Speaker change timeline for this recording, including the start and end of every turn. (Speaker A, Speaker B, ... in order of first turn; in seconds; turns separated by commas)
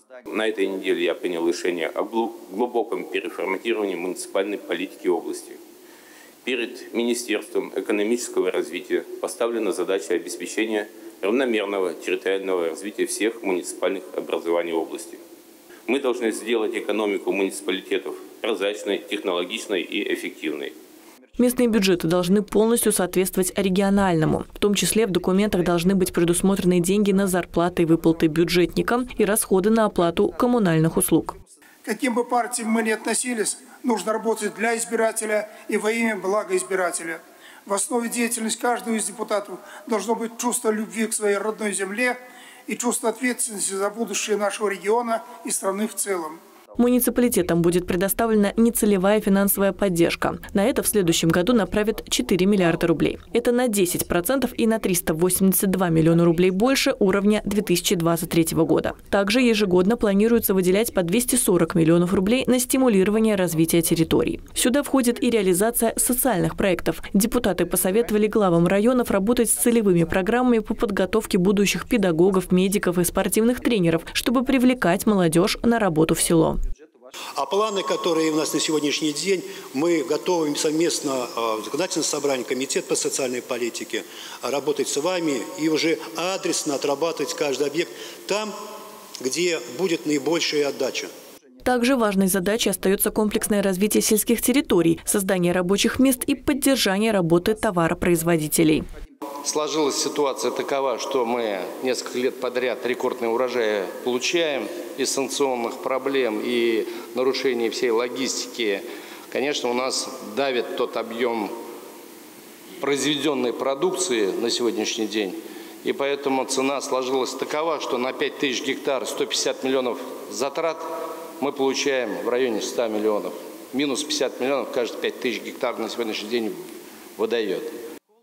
Speaker A: 0.3-5.6, Speaker A: 6.4-15.2, Speaker A: 15.9-20.7, Speaker B: 21.4-31.4, Speaker C: 31.8-46.4, Speaker B: 46.8-76.6, Speaker D: 77.3-88.5, Speaker D: 89.2-91.1, Speaker B: 91.6-98.8, Speaker E: 99.4-111.5, Speaker E: 112.8-120.9, Speaker E: 121.4-126.6, Speaker E: 127.2-127.7